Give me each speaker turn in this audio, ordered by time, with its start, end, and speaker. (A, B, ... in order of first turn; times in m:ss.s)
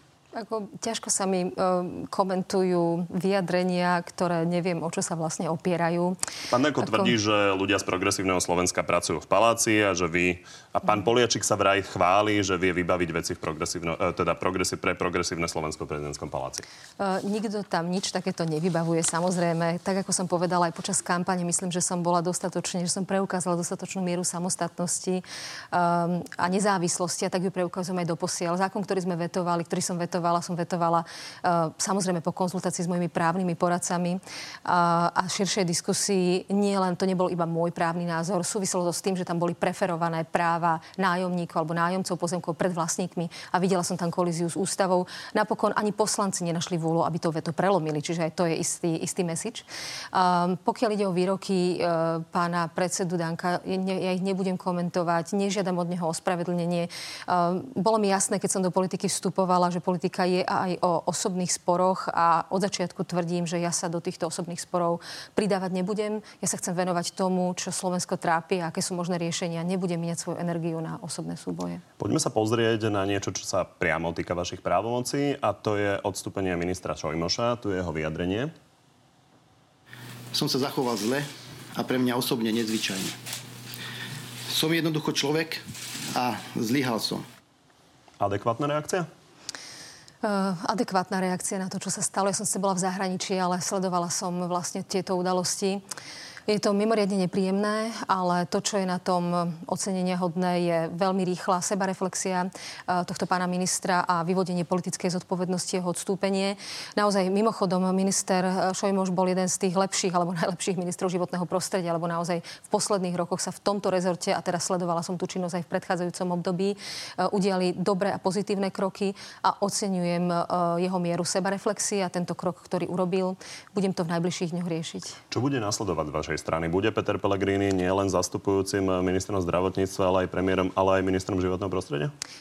0:00.3-0:06.2 A
0:06.5-0:16.6 B
0:06.8-0:07.1 A
0:17.0-1:11.8 A
1:12.0-1:18.5 B
1:20.3-1:23.2 C
1:24.5-1:27.2 C
1:28.2-1:29.1 B
1:30.2-1:35.8 A
1:36.5-2:05.2 A
2:05.3-2:12.1 B